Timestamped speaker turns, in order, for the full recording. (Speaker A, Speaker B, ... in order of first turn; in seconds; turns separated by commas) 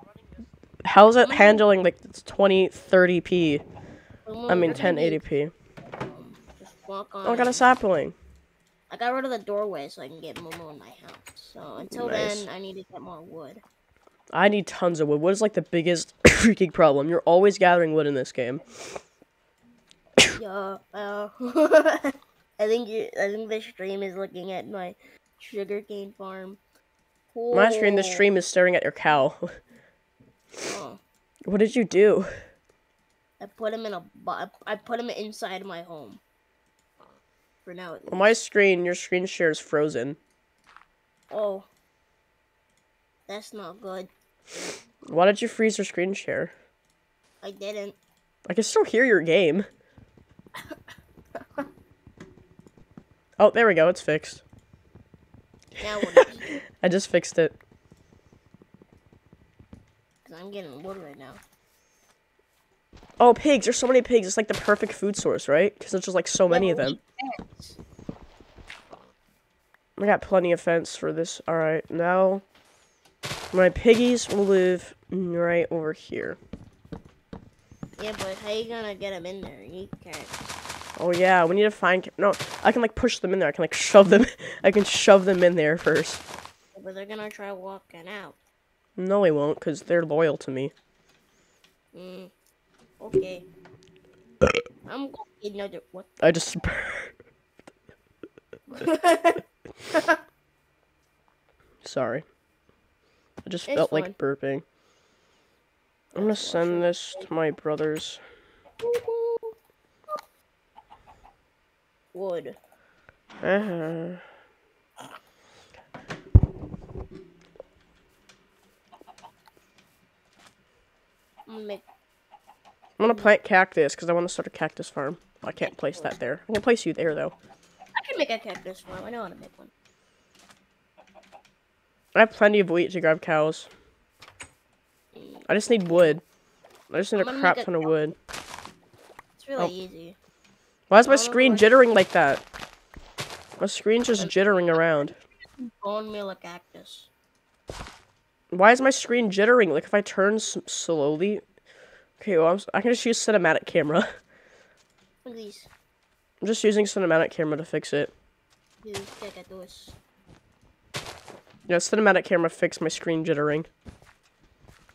Speaker A: 0.8-3.6, Speaker B: 1.2-1.6, Speaker B: 4.2-5.2, Speaker A: 4.5-5.5, Speaker B: 6.0-7.6, Speaker A: 7.2-8.2, Speaker B: 8.9-13.6, Speaker A: 11.8-12.5, Speaker A: 14.3-18.9, Speaker B: 20.3-26.6, Speaker B: 27.3-28.2, Speaker A: 27.5-29.6, Speaker B: 30.7-31.0, Speaker A: 31.4-32.3, Speaker B: 33.4-36.2, Speaker B: 37.6-38.4, Speaker A: 38.1-40.2, Speaker B: 41.3-41.7, Speaker B: 43.3-44.1, Speaker A: 45.0-46.5, Speaker B: 47.4-48.0, Speaker A: 48.5-49.7, Speaker B: 51.4-51.6, Speaker A: 53.4-54.4, Speaker B: 55.8-56.5, Speaker A: 56.0-57.5, Speaker B: 60.2-61.4, Speaker A: 63.2-67.0, Speaker B: 66.5-67.8, Speaker A: 70.0-72.4, Speaker A: 73.5-76.4, Speaker B: 78.0-80.4, Speaker A: 81.0-86.2, Speaker B: 86.7-88.4, Speaker A: 89.0-90.7, Speaker B: 91.9-92.3, Speaker B: 93.0-93.5, Speaker B: 94.9-96.1, Speaker A: 96.2-97.1, Speaker B: 98.7-100.2, Speaker A: 101.8-102.2, Speaker A: 103.4-104.6, Speaker B: 103.7-104.2, Speaker B: 106.1-107.2, Speaker A: 106.1-108.2, Speaker B: 108.8-109.5, Speaker B: 112.1-112.6, Speaker A: 113.4-114.2, Speaker B: 121.5-121.8, Speaker A: 123.0-127.3, Speaker B: 125.6-126.2, Speaker B: 128.0-129.7, Speaker A: 132.1-133.7, Speaker B: 135.1-136.1, Speaker A: 135.5-136.2, Speaker A: 136.9-138.2, Speaker B: 137.2-137.9, Speaker B: 139.4-140.2, Speaker A: 140.9-142.4, Speaker B: 141.1-141.7, Speaker A: 143.6-145.2, Speaker B: 145.6-147.1, Speaker A: 148.5-151.4, Speaker A: 152.2-154.1, Speaker B: 155.2-155.7, Speaker A: 156.4-158.1, Speaker B: 158.8-159.9, Speaker A: 161.7-163.7